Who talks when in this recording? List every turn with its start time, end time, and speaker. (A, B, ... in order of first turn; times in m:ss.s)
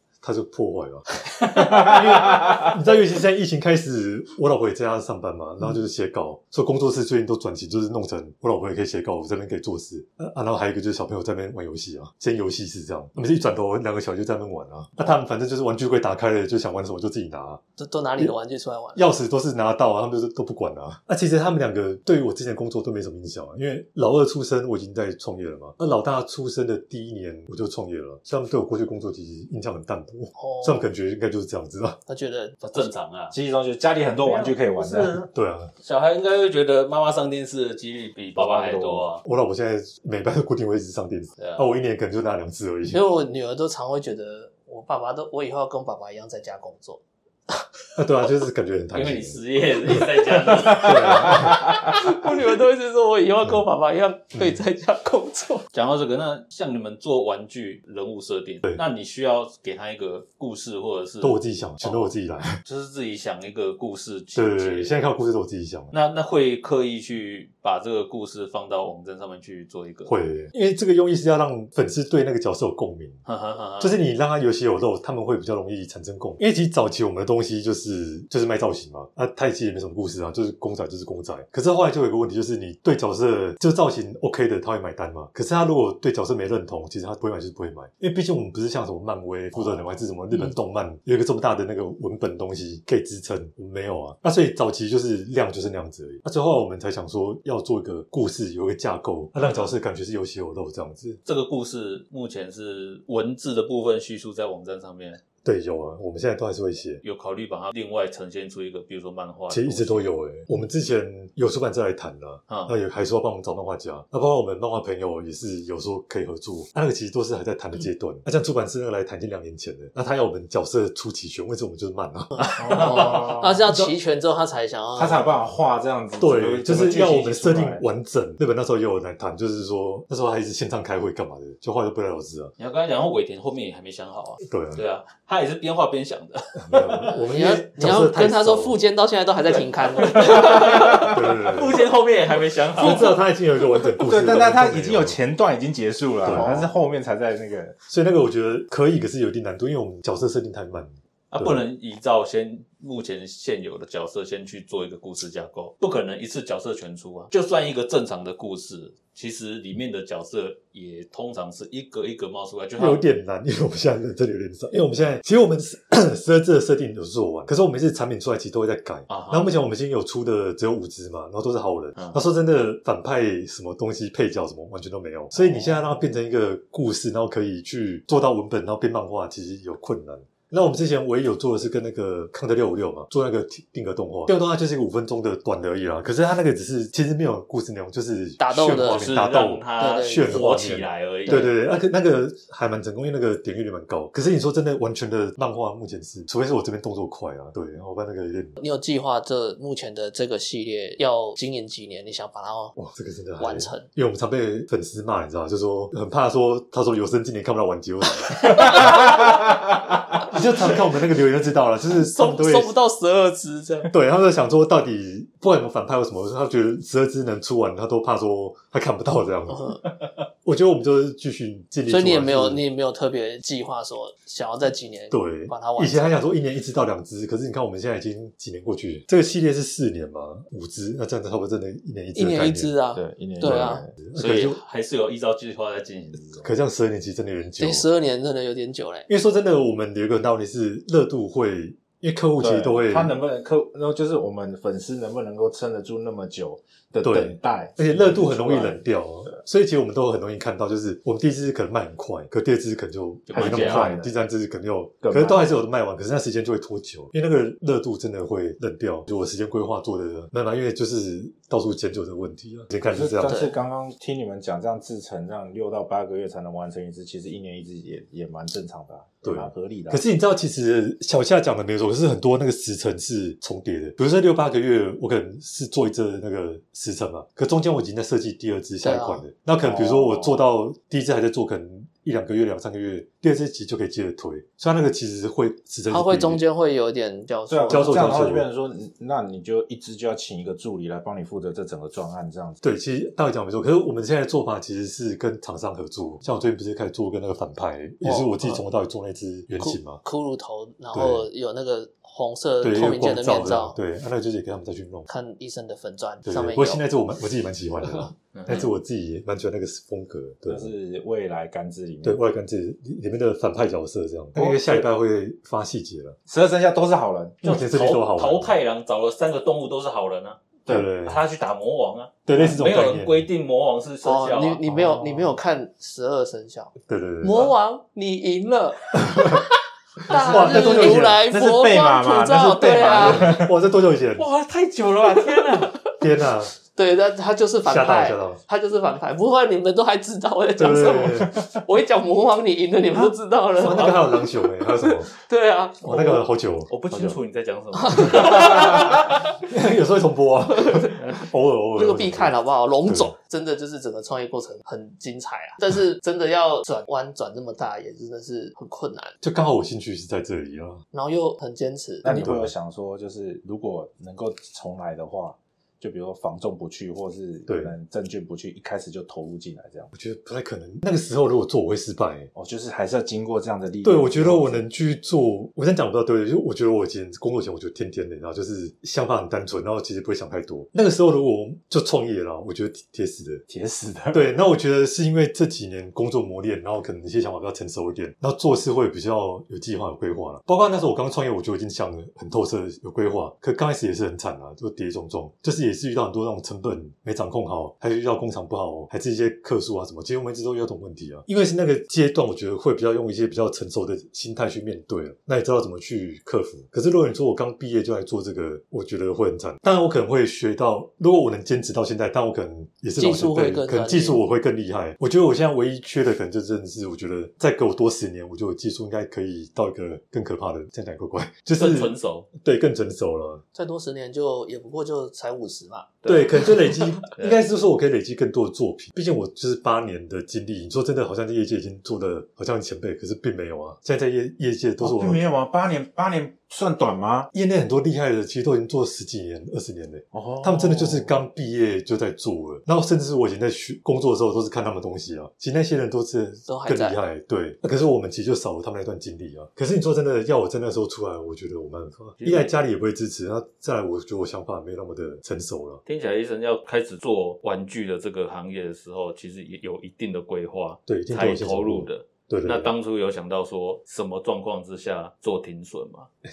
0:00.2-0:17.6 A
0:17.8-0:19.0 B
0:18.9-0:32.0 A
0:30.4-0:30.8 B
0:32.1-0:32.9 B
0:32.6-0:33.3 C
0:33.3-0:35.1 D
0:34.2-0:35.3 C
0:35.3-0:35.7 A
0:35.8-0:39.2 C
0:38.4-0:39.1 D
0:39.2-0:43.0 A
0:41.4-0:41.6 C
0:42.9-0:47.0 B
0:48.0-0:52.0 A
0:48.9-0:51.6 C
0:51.3-0:55.7 B
0:55.7-1:02.1 C
1:01.2-1:02.6 A
1:02.6-1:05.1 C
1:04.3-1:05.9 A
1:05.9-1:10.1 C
1:10.1-1:13.2 A
1:13.2-1:14.0 C
1:13.8-1:41.2 A
1:39.4-1:39.7 C
1:41.2-1:45.2 C
1:45.4-1:47.0 A
1:47.0-1:50.1 C
1:49.5-2:03.9 A
1:52.5-1:52.7 C
2:02.3-2:05.3 B
2:02.6-2:03.6 D
2:05.0-2:07.8 D
2:06.2-2:12.5 A
2:12.6-2:17.1 C
2:14.4-2:14.8 A
2:16.6-2:18.8 A
2:17.2-2:20.8 B
2:20.0-2:23.2 C
2:20.5-2:21.8 A
2:22.7-2:25.2 A
2:23.9-2:27.8 D
2:26.2-2:26.6 A
2:26.3-2:26.7 B
2:27.9-2:31.6 A
2:31.3-2:43.0 C
2:42.8-3:18.6 A
2:49.1-2:49.5 C
2:55.4-2:55.8 D
3:08.4-3:09.1 B
3:08.6-3:11.5 C
3:09.8-3:10.5 B
3:18.6-3:22.8 B
3:22.8-3:29.5 A
3:23.4-3:23.8 B
3:30.1-3:32.7 A
3:31.9-3:33.9 B
3:33.9-3:42.6 A
3:39.5-3:39.8 B
3:41.9-3:46.2 B
3:45.1-3:52.7 A
3:52.1-3:53.8 B
3:52.9-3:53.9 D
3:53.4-3:54.6 A
3:54.1-3:56.5 C
3:56.4-3:57.8 A
3:57.6-3:59.1 B
3:59.1-4:03.2 A
4:02.4-4:09.4 D
4:07.0-4:23.5 A
4:13.3-4:14.0 C
4:13.3-4:14.1 D
4:15.0-4:15.5 D
4:22.8-4:30.0 D
4:29.2-4:46.4 A
4:38.8-4:39.2 B
4:39.6-4:40.4 D
4:45.9-4:48.2 B
4:47.5-4:52.6 D
4:47.7-4:48.4 A
4:52.6-5:00.0 A
4:58.0-4:58.6 B
4:59.6-5:03.8 B
5:00.9-5:01.3 A
5:02.6-5:05.1 A
5:05.1-5:06.8 B
5:06.2-5:10.7 A
5:08.3-5:08.7 C
5:10.5-5:12.2 D
5:12.0-5:16.2 A
5:14.3-5:14.9 D
5:16.3-5:17.4 D
5:17.4-5:18.5 A
5:17.4-5:24.6 C
5:20.7-5:21.2 A
5:22.2-5:23.3 A
5:24.0-5:29.5 B
5:24.6-5:25.4 D
5:26.8-5:27.5 A
5:29.1-5:29.4 A
5:30.0-5:33.4 B
5:30.1-5:31.3 A
5:30.1-5:33.5 D
5:32.9-5:34.3 A
5:34.2-5:35.8 C
5:35.1-5:35.8 B
5:36.0-5:36.5 A
5:36.6-5:46.2 B
5:37.6-5:38.4 A
5:40.6-5:41.4 A
5:43.6-5:45.1 A
5:45.8-5:47.1 A
5:46.7-5:48.8 C
5:47.8-5:49.4 B
5:48.2-5:53.1 A
5:50.5-5:51.0 B
5:51.8-5:59.2 B
5:59.2-6:00.8 A
6:00.9-6:02.3 B
6:02.0-6:09.9 D
6:02.0-6:02.5 A
6:07.5-6:07.7 A
6:09.9-6:12.3 A
6:12.3-6:14.6 D
6:13.8-6:23.4 A
6:23.5-6:24.3 D
6:24.1-7:03.4 A
6:53.0-6:54.2 B
7:01.5-7:02.3 C
7:03.5-7:05.9 B
7:06.0-7:07.4 C
7:06.0-7:15.2 A
7:14.8-7:17.3 D
7:17.3-7:35.8 A
7:20.1-7:21.2 D
7:26.5-7:27.0 B
7:32.2-7:32.5 C
7:35.8-7:46.1 C
7:40.9-7:42.7 A